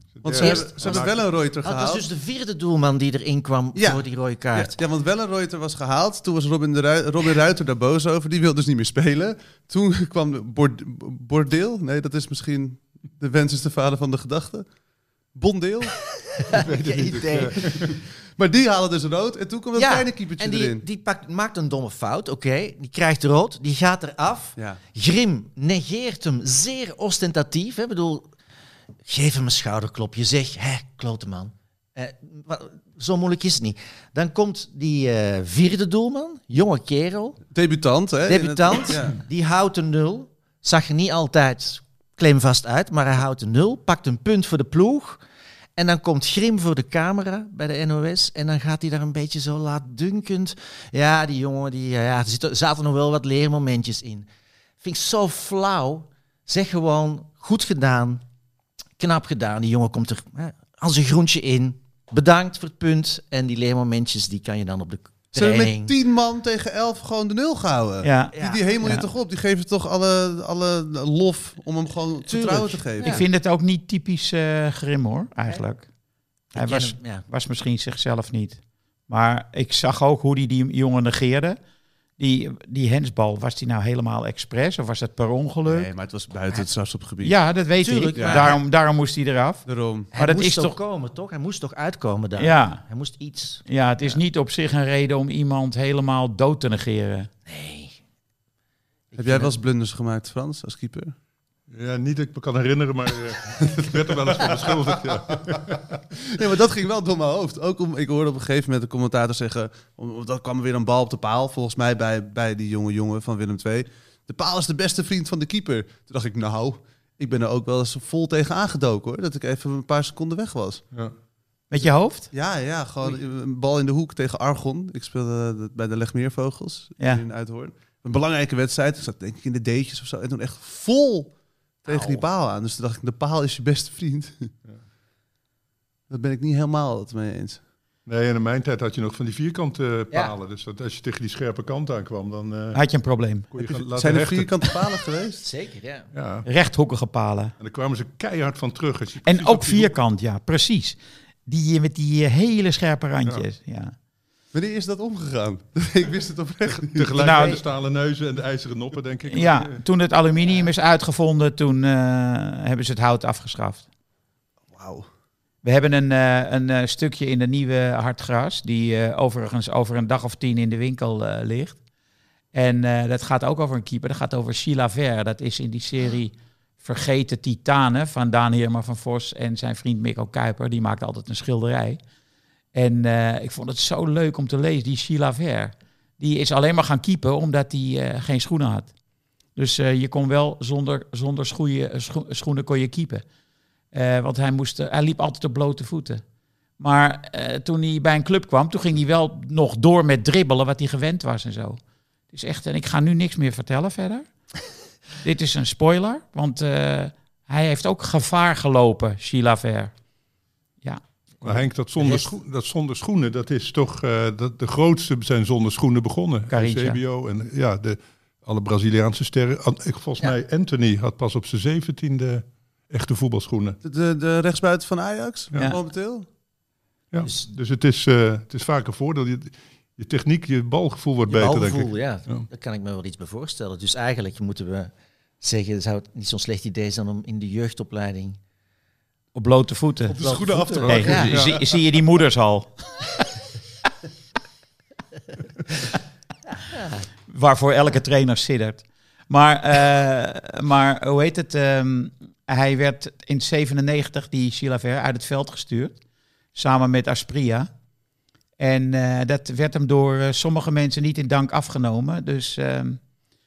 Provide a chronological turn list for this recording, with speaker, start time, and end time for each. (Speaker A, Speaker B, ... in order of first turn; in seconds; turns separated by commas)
Speaker A: 0.2-1.1, Speaker B: 0.2-2.1, Speaker C: 0.3-4.8, Speaker B: 3.8-14.7, Speaker B: 15.3-16.0, Speaker C: 16.3-17.8, Speaker A: 16.6-17.9, Speaker B: 17.6-20.8, Speaker C: 19.8-28.3, Speaker C: 29.1-37.4, Speaker B: 37.5-39.2, Speaker C: 38.3-45.2, Speaker C: 45.8-54.3, Speaker C: 54.8-58.2, Speaker C: 59.0-65.9, Speaker B: 65.3-73.2, Speaker D: 68.0-69.1, Speaker C: 68.3-68.6, Speaker C: 72.3-73.2, Speaker D: 73.0-75.9, Speaker C: 76.5-77.2, Speaker D: 76.5-81.6, Speaker D: 82.2-85.9, Speaker B: 85.7-87.3, Speaker D: 87.2-90.8, Speaker C: 87.8-88.6, Speaker B: 88.2-88.6, Speaker B: 89.7-90.1, Speaker C: 90.1-94.2, Speaker D: 92.4-92.8, Speaker D: 93.7-97.3, Speaker C: 97.5-98.0, Speaker C: 99.1-99.5, Speaker B: 99.2-101.2, Speaker A: 101.7-106.0, Speaker B: 104.6-105.2, Speaker B: 106.2-120.8, Speaker D: 121.7-122.3, Speaker B: 122.3-131.3, Speaker D: 127.0-127.2, Speaker B: 131.9-134.5, Speaker C: 131.9-132.2, Speaker B: 136.1-137.6, Speaker A: 138.1-142.8, Speaker D: 142.7-143.5, Speaker A: 143.5-144.6, Speaker B: 143.9-145.5, Speaker C: 145.4-146.1, Speaker A: 146.1-146.5, Speaker D: 146.4-147.5, Speaker A: 147.6-149.9, Speaker D: 149.2-153.9, Speaker B: 154.5-157.2, Speaker A: 156.9-159.8, Speaker D: 157.2-157.6, Speaker D: 159.3-163.8, Speaker B: 164.7-165.1, Speaker D: 165.6-171.8, Speaker D: 172.5-182.0, Speaker D: 182.7-188.9, Speaker D: 189.6-193.2, Speaker D: 193.9-196.2, Speaker D: 196.8-201.8, Speaker D: 202.3-204.2, Speaker D: 205.2-209.9, Speaker A: 211.4-223.8, Speaker C: 212.0-212.3, Speaker D: 216.5-217.0, Speaker B: 223.8-226.3, Speaker A: 227.1-232.5, Speaker C: 227.2-227.5, Speaker C: 231.3-238.4, Speaker D: 239.3-240.2, Speaker B: 240.1-241.4, Speaker C: 240.2-241.4, Speaker A: 240.4-241.6, Speaker D: 240.8-243.1, Speaker C: 246.7-247.1, Speaker D: 247.3-256.0, Speaker D: 256.6-257.7, Speaker D: 258.6-263.0